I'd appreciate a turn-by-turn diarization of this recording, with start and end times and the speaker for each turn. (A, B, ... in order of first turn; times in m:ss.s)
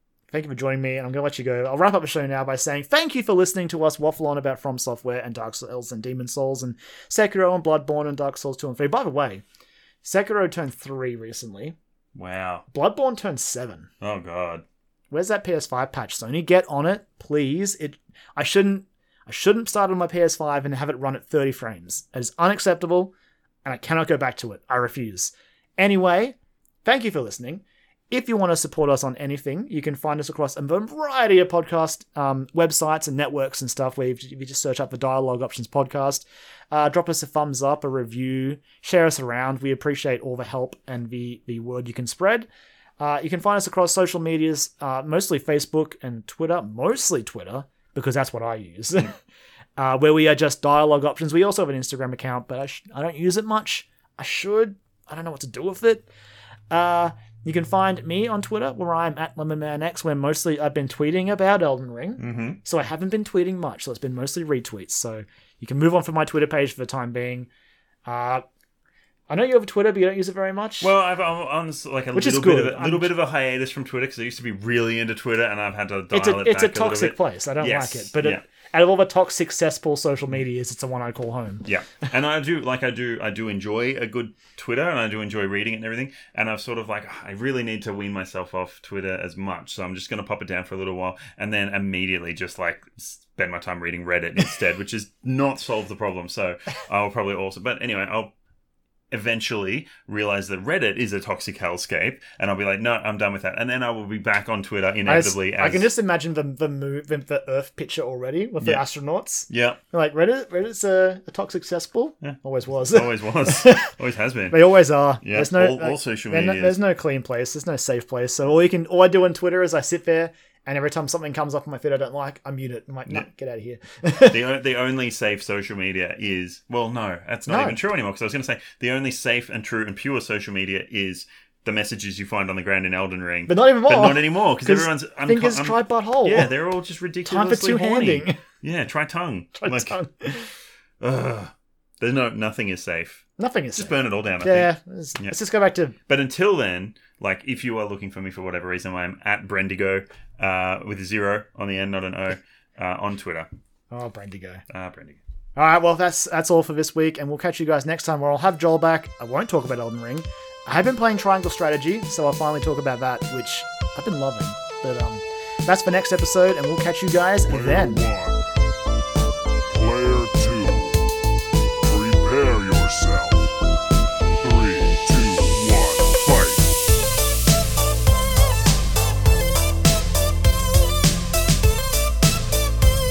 0:00.3-0:09.4 A
0:10.0-0:11.8 A
0:12.2-0:12.6 B
0:12.7-0:13.9 A
0:14.0-0:14.6 B
0:15.1-0:23.1 A
0:23.6-0:42.5 A
0:43.0-0:49.1 A
0:49.8-0:56.1 A
0:56.7-1:07.5 A
1:02.2-1:02.6 B
1:08.1-1:08.4 A
1:09.3-1:10.9 A
1:10.8-1:18.4 B
1:12.1-1:13.1 A
1:16.1-1:21.7 A
1:21.6-1:38.3 B
1:39.1-1:45.9 B
1:45.1-1:53.9 A
1:49.5-1:49.8 B
1:52.2-1:54.7 B
1:54.5-2:04.4 A
1:55.2-1:56.8 B
2:04.3-2:20.0 B
2:07.5-2:07.8 A
2:13.5-2:16.5 A
2:17.2-2:18.4 A
2:19.6-2:20.5 A
2:21.0-2:25.4 B
2:23.4-2:26.0 A
2:26.1-2:33.5 B
2:33.9-2:34.6 A
2:34.7-2:35.2 B
2:35.6-2:48.0 A
2:47.5-2:48.5 C
2:49.7-2:51.1 C
2:51.9-2:53.5 C
2:54.4-2:56.7 C